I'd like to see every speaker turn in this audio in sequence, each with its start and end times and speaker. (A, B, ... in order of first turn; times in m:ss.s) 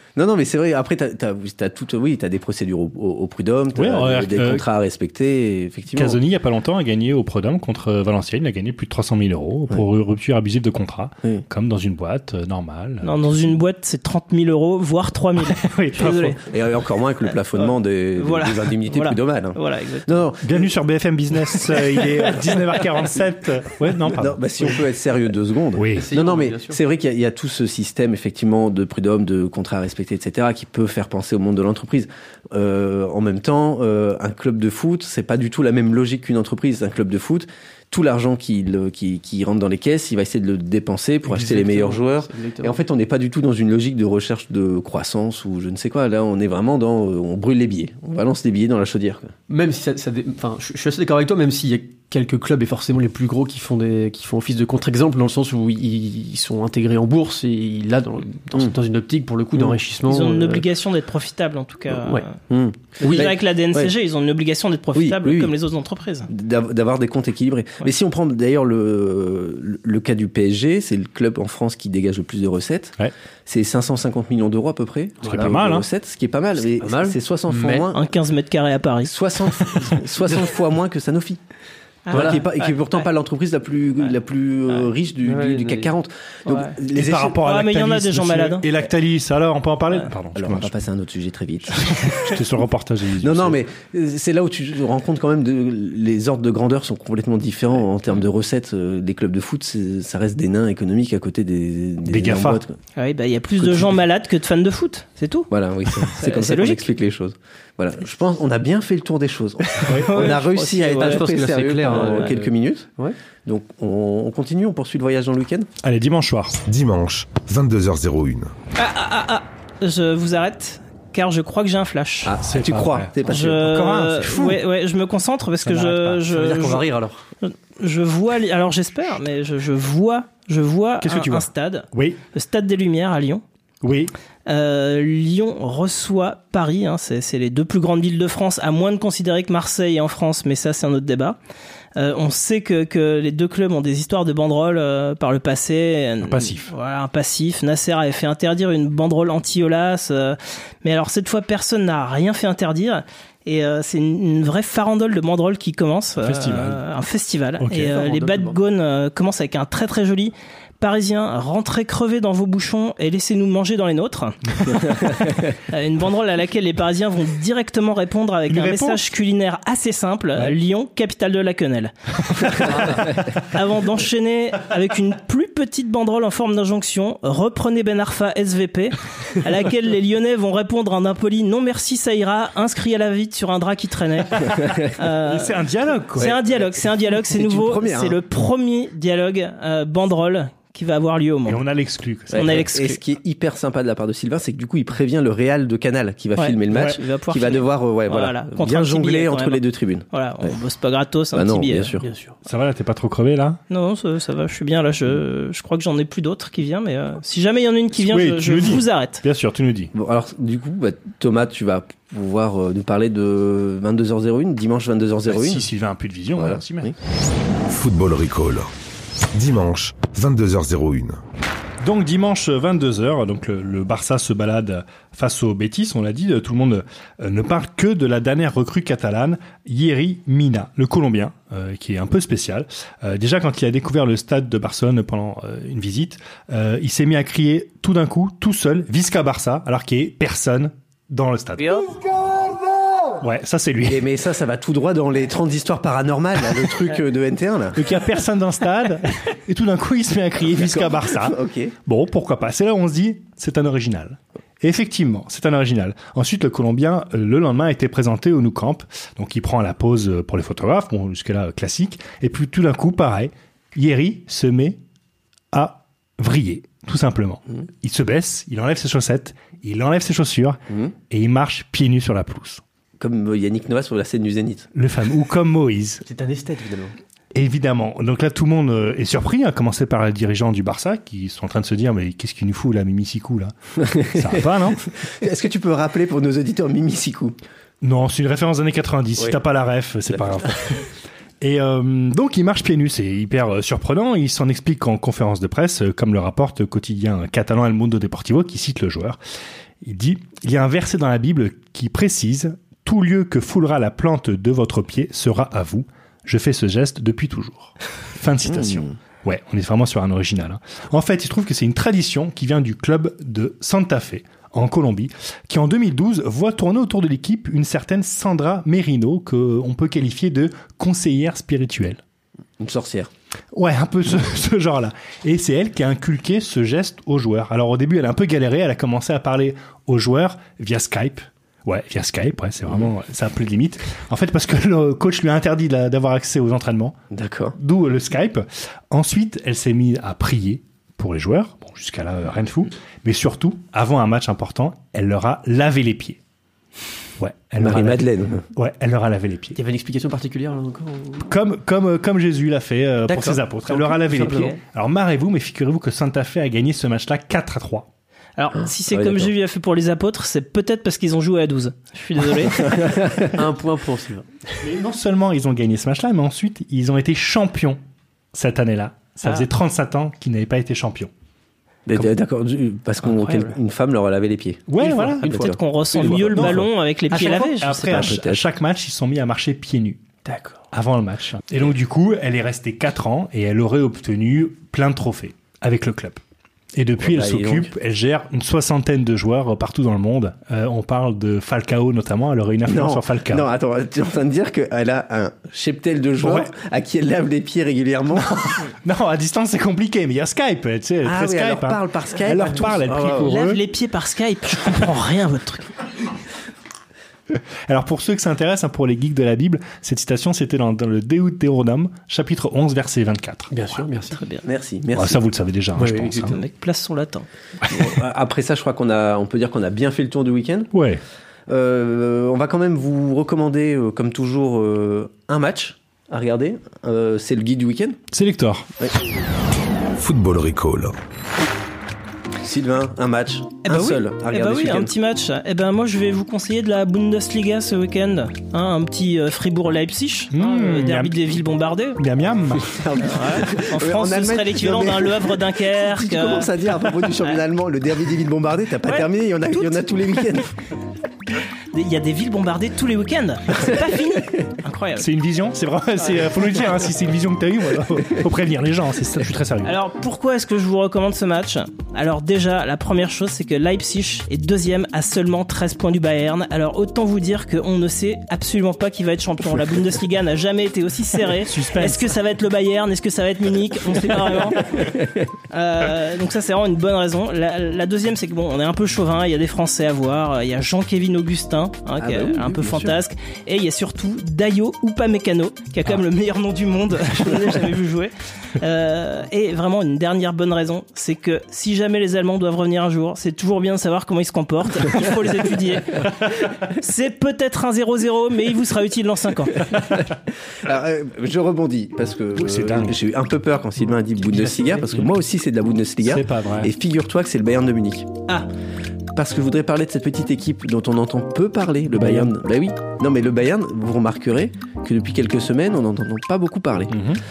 0:00.2-0:06.2 A
0:03.8-0:04.6 B
0:05.9-0:13.1 B
0:13.0-0:16.4 C
0:15.5-0:16.4 B
0:16.5-0:20.7 A
0:17.6-0:20.2 C
0:20.4-0:24.8 B
0:24.1-0:49.3 A
0:25.8-0:26.1 B
0:26.0-0:26.8 D
0:41.3-0:42.8 D
0:49.5-1:00.6 D
1:00.1-1:02.4 C
1:01.9-1:02.2 D
1:02.5-1:03.9 A
1:03.0-1:03.3 D
1:03.0-1:06.3 C
1:04.9-1:05.5 A
1:06.3-1:13.0 A
1:13.5-1:18.0 A
1:15.2-1:15.5 D
1:15.3-1:15.9 B
1:16.8-1:17.9 D
1:17.9-1:19.1 C
1:19.0-1:21.4 A
1:22.1-1:23.0 C
1:22.1-1:27.4 A
1:22.1-1:22.4 D
1:25.2-1:25.9 D
1:26.5-1:26.8 C
1:26.9-1:30.7 B
1:27.4-1:28.6 C
1:30.4-1:32.2 A
1:31.7-1:33.6 B
1:33.2-1:42.8 A
1:42.1-1:42.6 B
1:43.0-1:45.5 C
1:43.6-1:44.0 A
1:45.5-1:52.9 A
1:46.0-1:46.9 C
1:49.9-1:50.1 B
1:50.0-1:51.2 C
1:51.0-1:53.2 D
1:53.4-1:55.7 A
1:55.8-1:56.6 B
1:56.6-1:58.5 E
1:58.8-2:02.3 C
2:02.2-2:03.7 A
2:02.5-2:04.6 B
2:03.3-2:06.8 C
2:05.9-2:07.2 D
2:07.4-2:13.4 C
2:11.0-2:12.2 B
2:13.8-2:14.1 B
2:14.5-2:21.4 C
2:22.0-2:44.9 C
2:26.2-2:26.7 B
2:36.2-2:36.8 B
2:37.6-2:37.9 B
2:37.8-2:38.6 D
2:45.7-3:05.6 C
2:48.5-2:49.1 B
2:52.6-2:53.0 D
3:05.2-3:06.3 B
3:06.2-3:11.6 C
3:06.2-3:08.2 A
3:11.5-3:12.5 B
3:12.3-3:20.5 A
3:12.3-3:13.0 C
3:16.4-3:21.9 C
3:21.3-3:22.1 A
3:22.0-3:22.4 D
3:22.4-3:23.6 B
3:23.7-3:29.2 C
3:28.0-3:29.9 B
3:29.9-3:35.7 A
3:35.3-3:36.9 B
3:36.4-3:37.0 A
3:37.7-3:38.7 E
3:39.3-3:41.2 E
3:41.8-4:02.0 B
4:03.2-4:04.1 B
4:03.8-4:07.9 A
4:07.8-4:24.8 B
4:10.5-4:11.8 A
4:25.5-4:30.6 B
4:30.7-4:30.9 A
4:31.1-4:32.6 B
4:33.0-4:34.7 A
4:34.8-4:36.0 B
4:36.1-4:37.0 D
4:37.3-4:44.9 B
4:43.8-4:47.4 A
4:47.8-4:50.9 B
4:50.1-4:50.5 A
4:51.4-4:59.2 B
4:59.8-5:22.0 B
5:08.5-5:09.0 A
5:22.6-5:23.1 A
5:23.5-5:37.0 B
5:37.1-5:37.6 A
5:37.6-5:46.2 B
5:47.2-5:49.6 B
5:47.6-5:48.4 A
5:49.6-5:51.3 D
5:51.3-5:57.9 B
5:53.1-5:54.6 D
5:58.4-6:02.9 C
5:58.6-5:59.3 A
6:02.6-6:03.3 A
6:03.3-6:04.3 D
6:04.6-6:07.8 B
6:08.3-6:11.1 B
6:11.9-6:18.4 A
6:13.1-6:13.5 D
6:14.7-6:20.0 B
6:14.8-6:18.0 C
6:20.2-6:20.6 D
6:20.7-6:26.2 B
6:26.8-6:33.4 B
6:27.0-6:27.7 A
6:32.7-6:38.6 A
6:36.2-6:36.5 B
6:38.2-6:43.6 B
6:41.0-6:43.4 A
6:43.2-6:45.8 C
6:47.7-6:53.5 B
6:53.5-6:54.2 D
6:54.1-6:54.4 C
6:54.4-6:55.2 A
6:54.9-6:56.4 B
6:55.8-6:56.4 D
6:56.3-6:57.3 C
6:57.6-6:58.0 B
6:57.7-7:00.7 A
7:00.7-7:01.0 B
7:01.5-7:08.0 A
7:08.1-7:08.7 B
7:10.0-7:11.0 E
7:12.4-7:14.9 A
7:13.6-7:22.0 C
7:20.3-7:21.4 B
7:22.0-7:22.8 B
7:22.6-7:30.6 A
7:23.0-7:26.5 C
7:28.8-7:29.7 C
7:31.7-7:35.1 C
7:35.0-7:39.8 B
7:39.6-7:54.9 C
7:51.5-7:52.2 B
7:54.7-7:55.3 A
7:55.5-8:16.1 C
8:02.0-8:03.0 A
8:16.7-8:19.7 C
8:20.6-8:28.1 A
8:22.4-8:23.0 B
8:24.3-8:25.1 B
8:26.0-8:26.7 B
8:29.1-8:37.0 A
8:32.0-8:32.3 B
8:36.9-8:37.2 B